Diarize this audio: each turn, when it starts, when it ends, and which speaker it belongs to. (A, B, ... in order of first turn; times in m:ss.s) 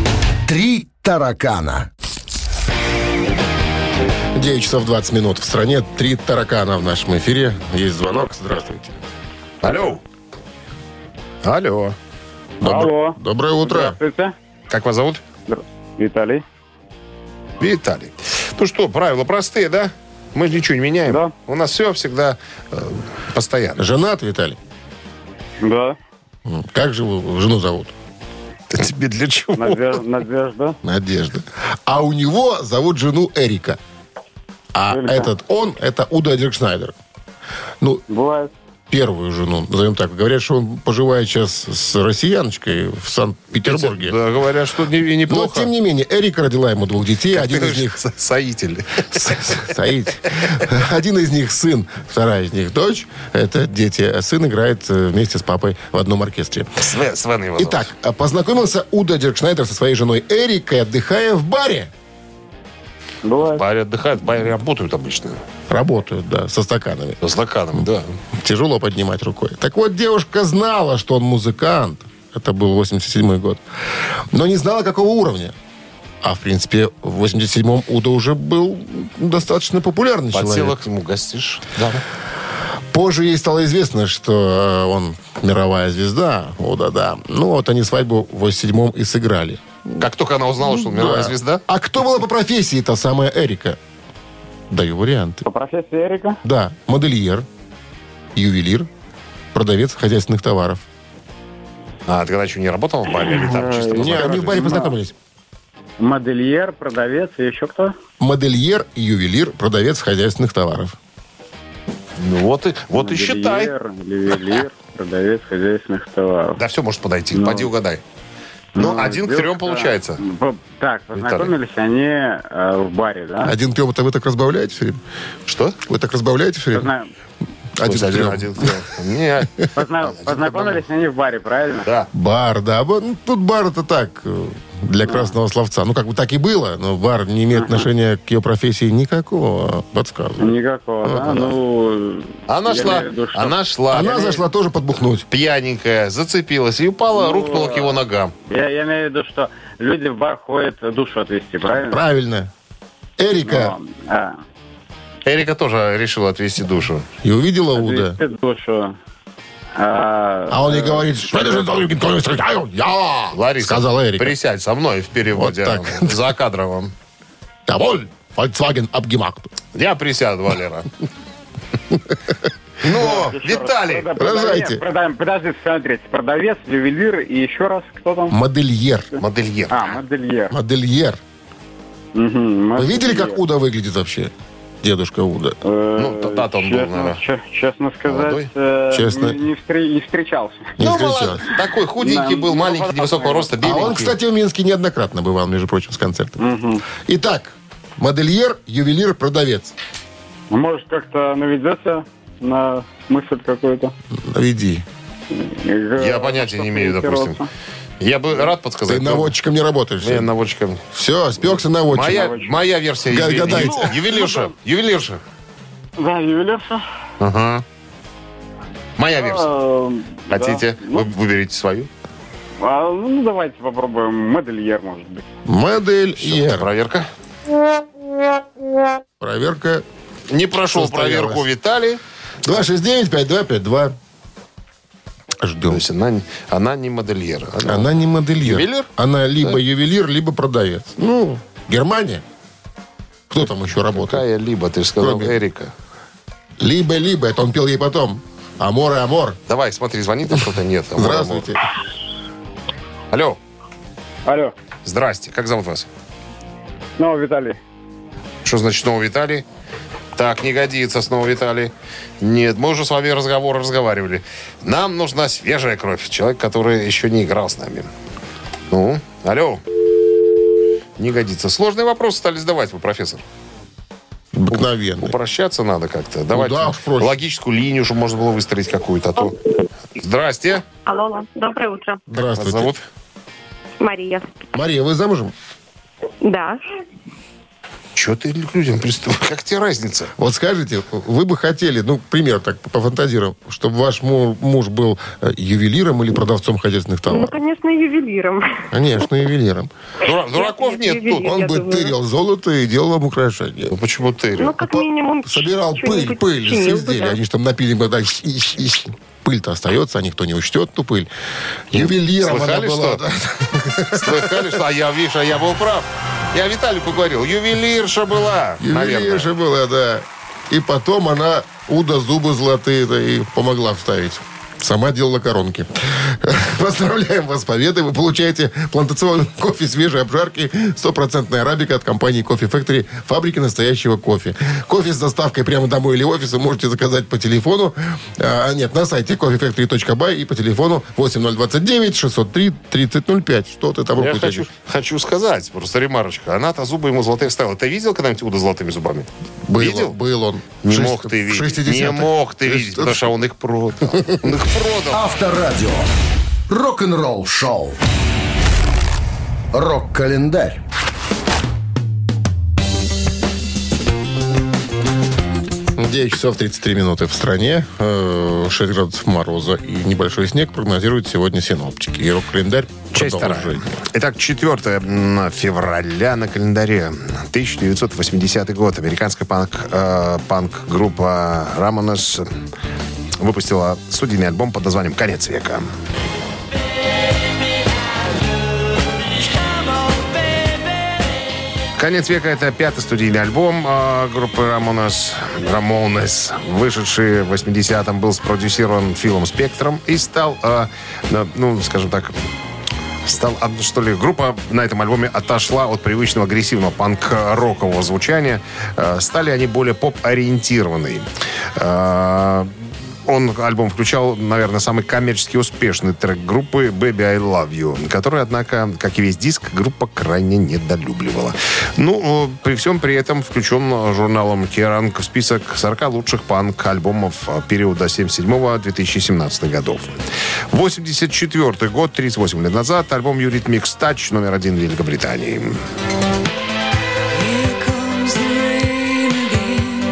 0:00.5-0:01.9 A
0:04.4-0:09.0 B
0:09.6-0:10.0 C
0:11.4-0:12.0 C
0:12.6-0:14.0 B
0:12.6-0:14.4 D
0:14.7-0:15.2 C
0:15.5-0:16.4 D
0:17.6-0:23.8 C
0:21.1-0:21.3 D
0:23.8-0:24.6 B
0:25.6-0:26.0 D
0:26.4-0:27.9 B
0:28.7-0:30.0 C
0:29.6-0:30.8 D
0:30.8-0:33.8 B
0:34.7-0:37.0 B
0:34.9-0:35.3 D
0:38.1-0:38.5 D
0:38.9-0:44.2 B
0:43.6-0:45.7 C
0:45.3-0:48.0 B
0:47.3-0:49.6 C
0:49.1-0:56.8 B
0:56.8-0:57.9 C
0:57.6-1:01.9 B
1:03.2-1:03.6 D
1:03.5-1:05.4 C
1:05.7-1:07.2 B
1:07.2-1:08.1 C
1:08.4-1:13.6 B
1:14.3-1:15.6 B
1:16.2-1:20.8 B
1:20.3-1:22.0 C
1:22.9-1:30.0 B
1:30.0-1:31.6 C
1:30.6-1:33.8 B
1:34.7-1:35.4 B
1:35.5-1:36.4 D
1:36.4-1:37.5 B
1:38.4-1:38.9 B
1:39.5-1:40.8 B
1:42.1-1:44.7 C
1:43.5-1:44.9 D
1:43.9-1:45.1 B
1:46.0-1:47.9 D
1:48.2-1:51.0 B
1:52.2-1:53.7 C
1:53.0-1:56.6 D
1:56.6-1:58.0 C
1:57.3-1:57.7 D
1:58.8-2:03.6 D
1:58.8-2:00.2 C
2:01.2-2:01.5 C
2:03.4-2:05.0 B
2:05.5-2:05.8 C
2:05.9-2:06.9 B
2:06.7-2:07.1 D
2:07.8-2:08.8 B
2:07.8-2:10.8 C
2:09.8-2:11.9 D
2:12.1-2:20.5 B
2:15.0-2:15.3 D
2:17.5-2:17.9 D
2:20.4-2:23.6 D
2:21.0-2:21.6 B
2:22.5-2:24.4 C
2:23.9-2:25.2 B
2:25.3-2:28.3 C
2:27.2-2:32.0 D
2:31.8-2:32.5 B
2:33.2-2:33.8 B
2:33.4-2:34.4 D
2:35.3-2:37.0 C
2:37.2-2:38.2 B
2:37.7-2:39.0 D
2:39.8-2:41.7 D
2:40.5-2:44.4 B
2:43.3-2:46.9 C
2:45.4-2:46.2 B
2:47.7-2:49.5 B
2:49.8-2:50.9 C
2:52.8-2:54.1 C
2:52.9-2:53.3 B
2:53.0-2:58.4 D
2:54.2-2:54.8 B
2:58.3-2:59.1 B
2:59.2-3:00.6 D
2:59.2-3:00.0 C
3:00.5-3:01.2 B
3:02.2-3:03.4 D
3:02.8-3:04.3 B
3:04.8-3:05.6 B
3:05.6-3:10.8 D
3:06.0-3:07.2 C
3:08.0-3:08.5 C
3:08.9-3:09.4 B
3:10.8-3:11.5 B
3:10.8-3:14.2 C
3:12.0-3:13.6 D
3:13.6-3:16.4 B
3:16.4-3:16.8 D
3:16.9-3:19.8 B
3:20.5-3:23.9 D
3:24.1-3:24.8 B
3:25.3-3:27.5 D
3:26.0-3:27.4 C
3:28.0-3:29.3 C
3:28.9-3:30.3 B
3:30.0-3:30.8 C
3:30.9-3:32.3 B
3:31.5-3:35.2 C
3:32.1-3:32.6 D
3:33.1-3:34.0 B
3:33.5-3:34.5 D
3:36.0-3:36.8 D
3:37.2-3:37.6 C
3:39.0-3:39.5 C
3:39.2-3:41.1 D
3:40.3-3:41.9 C
3:42.6-3:45.2 D
3:45.5-3:46.7 B
3:46.2-3:47.1 C
3:49.2-3:49.8 B
3:50.3-3:52.0 C
3:50.6-3:51.4 B
3:52.4-3:54.0 B
3:55.4-3:55.8 B
3:55.7-3:57.9 C
3:57.6-4:02.2 B
3:58.4-3:58.9 C
4:03.3-4:04.2 B
4:03.9-4:05.7 C
4:05.0-4:05.4 B
4:06.6-4:09.4 B
4:09.5-4:11.5 C
4:11.0-4:11.6 B
4:13.1-4:13.4 C
4:14.3-4:14.6 D
4:14.8-4:15.9 C
4:17.0-4:17.6 D
4:18.4-4:19.4 C
4:20.2-4:27.9 C
4:28.7-4:29.6 C
4:31.0-4:33.2 C
4:34.3-4:35.2 B
4:34.5-4:39.4 C
4:36.3-4:37.1 B
4:40.0-4:40.6 C
4:40.8-4:42.0 E
4:42.1-4:42.7 B
4:42.3-4:42.8 C
4:43.8-4:44.3 E
4:44.5-4:45.3 B
4:46.2-4:46.6 E
4:48.0-4:50.1 C
4:50.2-4:57.4 B
4:57.1-4:58.7 E
4:58.7-4:59.7 B
5:00.0-5:01.4 C
5:00.1-5:01.9 E
5:01.2-5:03.8 B
5:03.7-5:04.6 C
5:04.4-5:07.2 E
5:04.6-5:11.1 B
5:11.7-5:14.6 B
5:11.7-5:13.0 C
5:14.0-5:19.3 C
5:18.6-5:44.5 B
5:44.0-5:50.0 C
5:49.4-5:53.0 B
5:50.6-5:55.0 C
5:53.9-5:54.3 B
5:54.9-5:55.9 A
5:56.5-5:57.8 A
5:59.5-6:00.6 A
6:05.8-6:13.6 B
6:12.9-6:22.3 C
6:23.2-6:25.7 C
6:31.8-6:42.2 C
6:43.0-6:52.5 C
6:53.1-7:10.0 C
7:10.5-7:15.6 C
7:17.4-7:19.3 E